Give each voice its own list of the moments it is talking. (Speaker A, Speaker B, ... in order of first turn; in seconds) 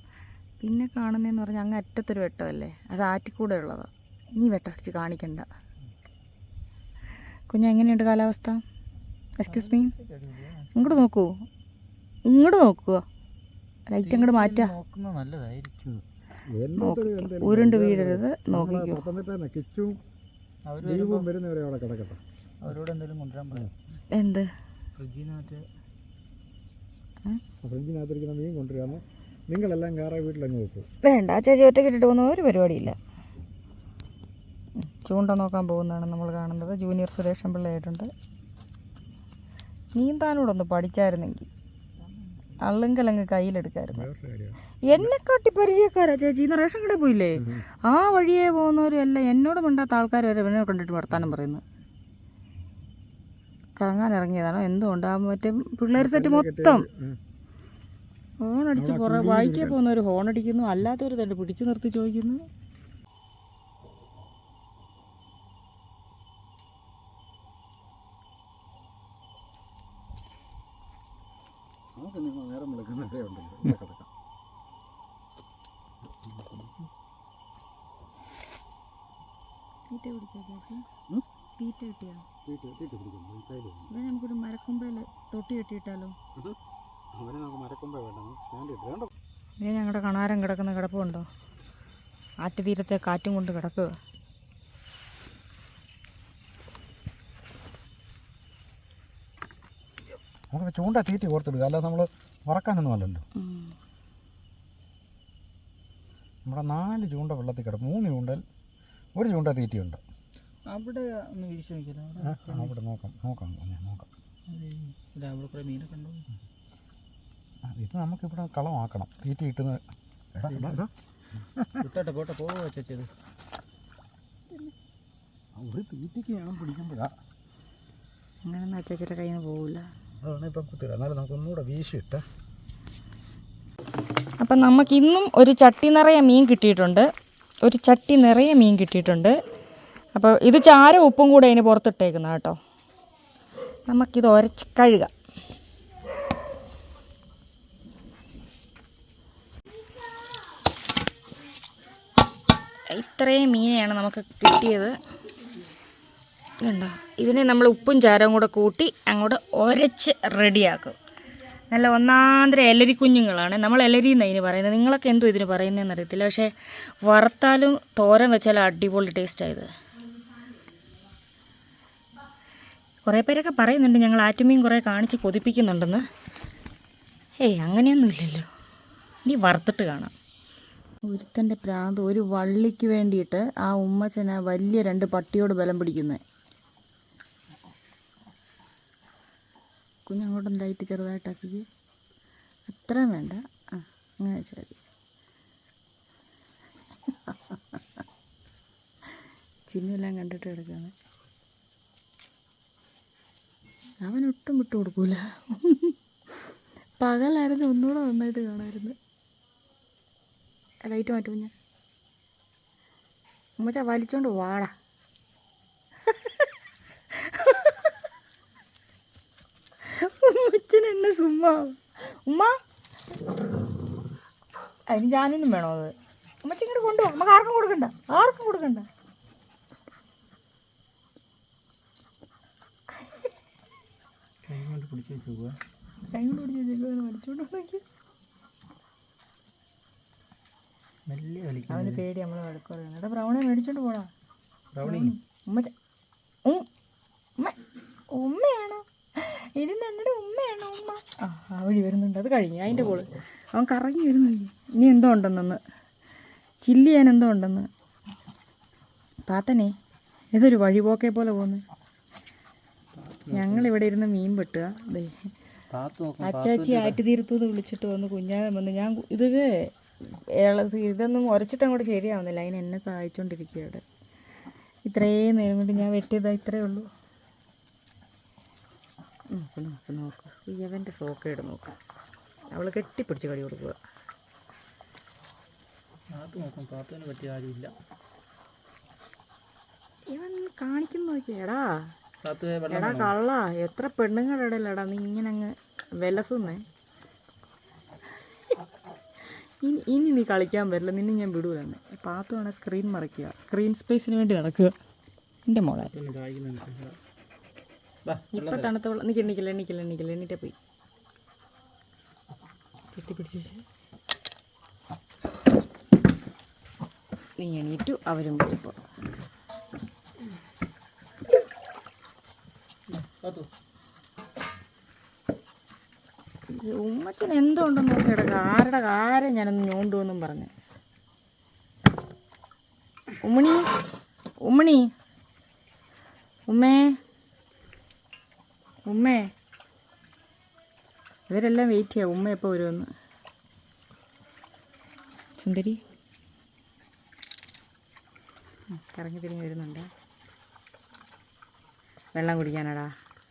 Speaker A: 0.6-5.5, 7.5-8.6, 9.4-9.9, 10.8-11.4, 12.3-13.1, 13.9-14.7, 16.8-19.0, 24.1-24.5, 31.0-33.0, 34.8-38.1, 39.9-41.5, 42.6-44.1, 44.9-51.6, 53.8-56.9, 58.4-62.5, 79.9-80.9, 81.6-82.3, 83.9-86.2, 89.6-91.3, 92.4-94.0, 103.4-103.7, 128.4-129.8, 134.4-137.1, 137.6-139.4, 140.2-142.6, 143.9-145.1, 152.9-155.0, 156.6-161.0, 161.7-166.5, 167.0-169.7, 173.1-176.0, 177.4-178.5, 179.2-180.1, 181.1-186.2, 190.1-191.7, 192.7-194.8, 199.7-200.9, 204.0-206.0, 207.0-209.0, 210.8-211.5, 213.6-214.7, 216.1-216.5, 217.2-217.9, 219.8-222.6, 224.9-228.9, 236.1-237.8, 241.7-244.1, 244.8-245.7, 248.1-255.6, 256.6-257.7, 259.3-259.7, 260.3-261.6, 263.3-265.1, 266.2-273.8, 274.9-276.9, 279.3-281.7, 282.5-283.8, 290.1-291.9, 292.7-296.6, 299.6-304.7, 305.5-305.9, 308.3-310.6, 312.9-313.6, 317.4-318.8, 326.5-330.5, 333.2-333.6, 334.4-334.9, 336.5-337.0, 338.9-339.3, 341.3-342.9, 345.4-345.8, 348.7-349.9, 352.1-352.9
Speaker B: 9.5-11.0, 14.1-15.9, 20.7-21.3, 22.6-23.7, 25.0-25.6, 110.7-112.7, 114.5-116.3, 120.5-120.8, 121.8-123.1, 234.5-235.6, 241.1-242.0, 244.7-245.1, 263.0-263.7, 265.7-267.0, 286.1-287.7, 292.2-293.1, 305.8-307.0, 308.1-308.7, 322.9-323.5
Speaker C: 15.9-20.0, 20.8-22.2, 27.6-30.9, 43.9-45.1, 47.4-47.6, 56.0-57.2, 58.8-59.8, 72.0-74.1, 76.3-76.7, 82.4-83.9, 87.1-89.1, 100.5-103.2, 106.5-108.4, 109.2-110.0, 112.2-114.1, 117.7-119.8, 120.3-121.9, 125.6-127.1, 130.2-132.2